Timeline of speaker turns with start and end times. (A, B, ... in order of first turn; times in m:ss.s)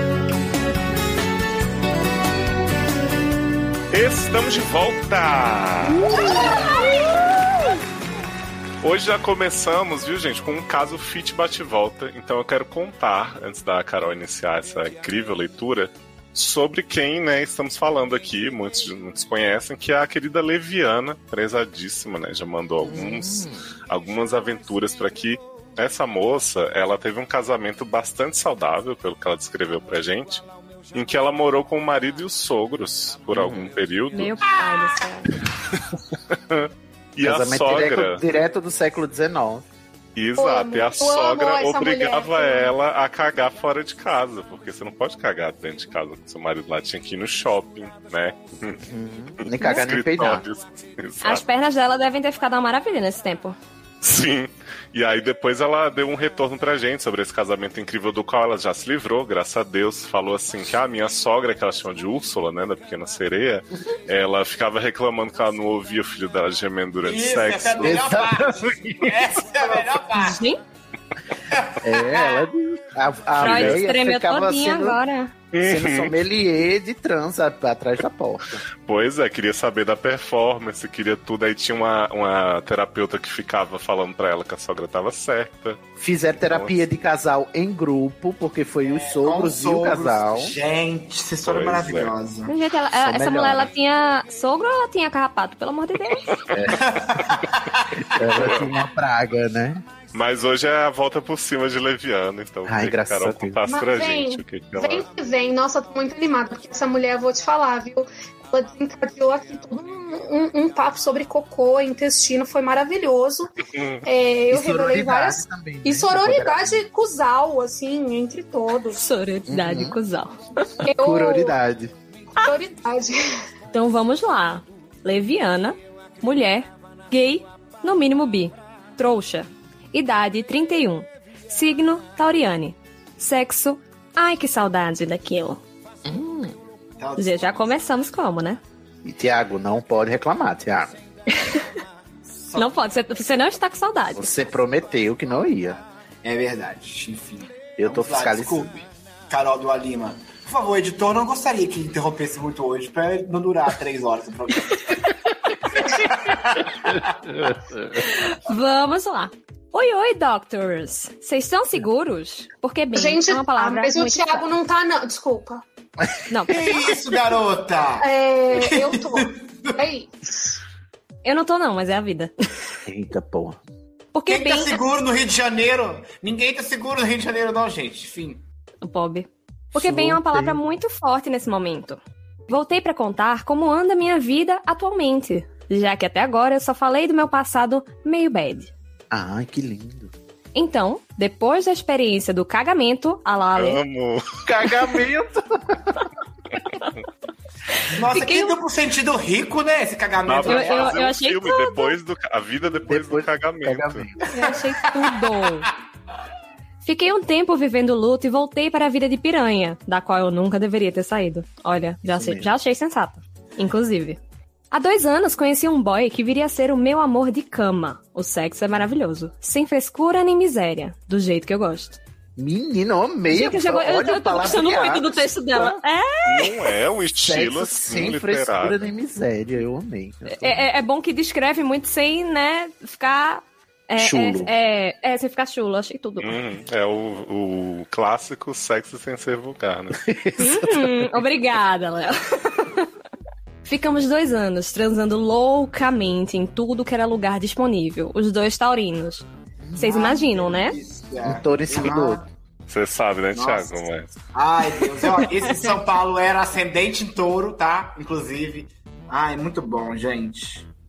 0:03.9-0:06.5 A
0:06.1-0:06.6 B
0:08.8-0:34.4 A
0:22.8-0:23.6 C
0:33.3-0:33.7 C
0:34.1-0:35.4 D
0:35.7-0:38.2 A
0:37.2-0:39.6 C
0:40.2-0:48.8 A
0:40.4-0:42.7 B
0:48.8-0:50.4 C
0:49.4-0:51.4 A
0:51.2-0:53.6 D
0:54.0-1:08.1 A
1:07.0-1:10.4 E
1:07.8-1:09.7 C
1:10.2-1:10.6 D
1:11.5-1:12.5 E
1:11.8-1:15.0 C
1:13.4-1:13.8 A
1:13.4-1:15.3 D
1:15.5-1:16.1 A
1:15.6-1:18.6 C
1:18.8-1:25.8 A
1:26.0-1:30.6 C
1:26.4-1:26.8 A
1:28.8-1:32.5 E
1:31.4-1:32.1 A
1:32.5-1:36.3 D
1:33.0-1:33.7 C
1:36.5-1:36.9 C
1:36.8-1:38.4 E
1:38.1-1:39.8 C
1:38.3-1:38.7 A
1:40.1-1:45.1 A
1:42.7-1:43.6 C
1:43.7-1:53.5 B
1:53.7-1:54.0 A
1:54.0-1:59.0 B
1:54.5-1:56.8 C
1:58.9-2:00.9 D
1:59.5-2:00.0 C
2:00.8-2:01.6 B
2:00.9-2:01.9 C
2:02.4-2:03.4 B
2:03.7-2:15.6 D
2:16.1-2:16.5 C
2:17.0-2:17.7 E
2:17.2-2:18.6 D
2:19.0-2:20.9 C
2:21.3-2:21.7 D
2:22.4-2:22.8 E
2:22.6-2:24.4 D
2:24.1-2:25.8 C
2:26.2-2:35.0 E
2:27.8-2:28.7 C
2:35.8-2:37.0 E
2:38.0-2:44.5 D
2:43.0-2:45.6 B
2:46.3-2:46.6 D
2:46.5-2:49.7 E
2:48.0-2:50.6 B
2:51.2-2:52.3 D
2:52.9-2:53.6 C
2:54.1-2:54.8 D
2:54.3-2:58.4 E
2:58.8-3:08.7 D
2:59.7-3:00.6 C
3:09.1-3:10.1 C
3:10.6-3:13.8 D
3:13.6-3:14.2 A
3:14.4-3:16.1 C
3:17.8-3:18.6 D
3:17.9-3:20.9 E
3:20.2-3:24.1 A
3:20.5-3:22.0 D
3:22.9-3:24.3 C
3:24.3-3:25.7 D
3:26.8-3:34.2 D
3:32.1-3:32.5 C
3:34.7-3:42.0 D
3:42.4-3:45.8 C
3:43.3-3:46.6 D
3:46.3-3:48.9 A
3:47.2-3:50.7 C
3:50.3-3:56.4 D
3:54.0-3:54.5 C
3:56.2-4:00.0 A
4:00.0-4:01.2 C
4:00.4-4:02.9 D
4:03.7-4:09.3 D
4:09.8-4:10.8 D
4:09.8-4:12.3 E
4:11.2-4:12.2 C
4:12.7-4:14.2 A
4:13.4-4:13.8 E
4:14.3-4:20.7 E